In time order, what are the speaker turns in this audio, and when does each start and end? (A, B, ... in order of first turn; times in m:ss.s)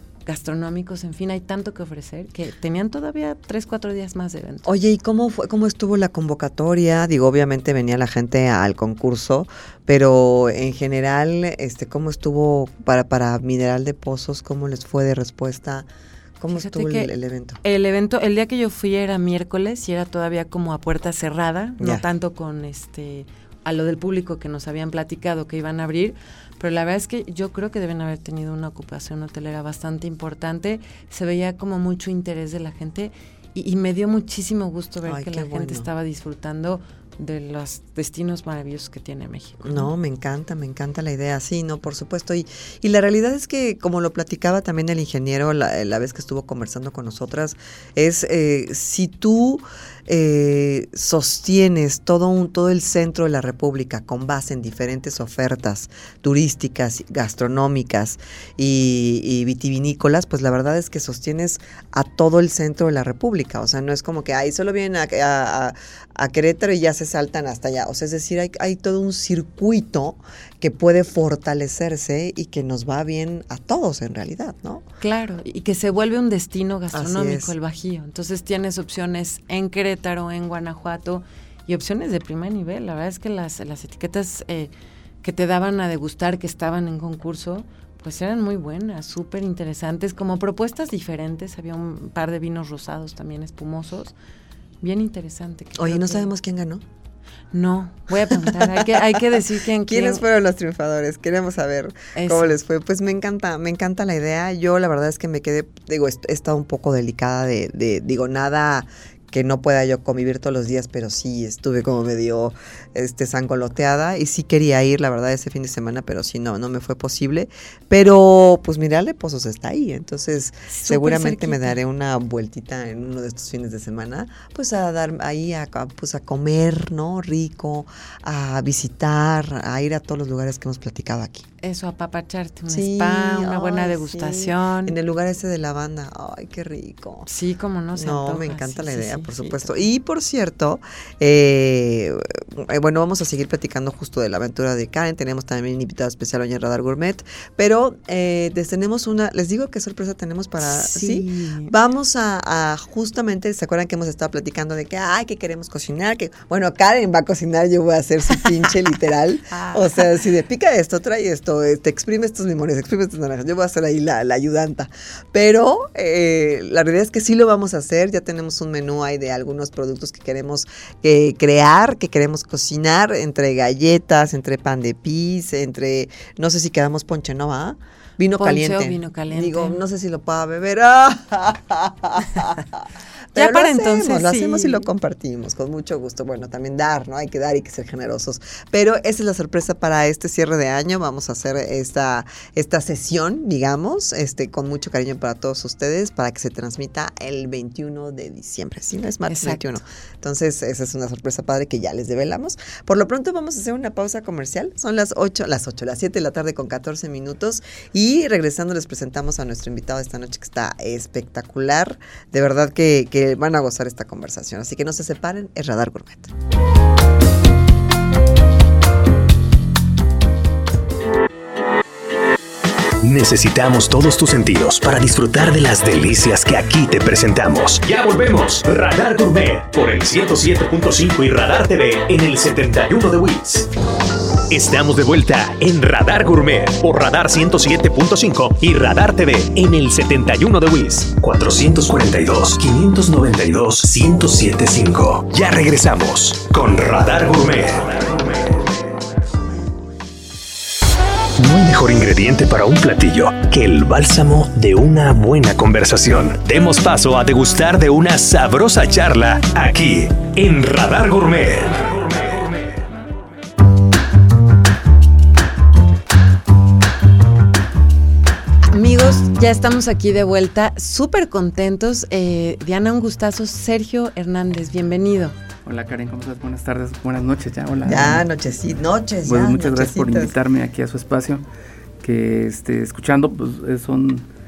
0:00.2-0:04.7 A
0:04.6-0:15.9 B
0:16.4-0:17.6 B
0:16.5-0:17.1 A
0:17.6-0:39.9 A
0:21.8-0:22.0 B
0:35.0-0:35.9 B
0:39.6-1:14.8 B
1:15.0-1:24.7 A
1:16.9-1:17.5 B
1:25.2-1:34.1 A
1:34.8-1:36.3 A
1:35.8-1:36.8 B
1:37.5-1:40.2 A
1:38.3-2:11.4 B
1:42.1-1:42.5 A
2:00.7-2:01.8 A
2:11.6-2:14.9 A
2:12.7-2:17.3 B
2:17.2-2:19.8 A
2:17.9-3:36.3 B
2:30.6-2:31.7 A
2:39.5-2:40.0 A
2:58.4-2:59.8 A
3:03.3-3:04.8 A
3:19.3-3:19.6 A
3:43.0-3:53.7 C
3:54.5-4:08.8 C
4:11.4-4:22.8 C
4:28.6-4:35.4 A
4:35.6-4:38.2 D
4:37.8-4:40.3 B
4:39.2-4:41.4 D
4:42.0-4:44.2 D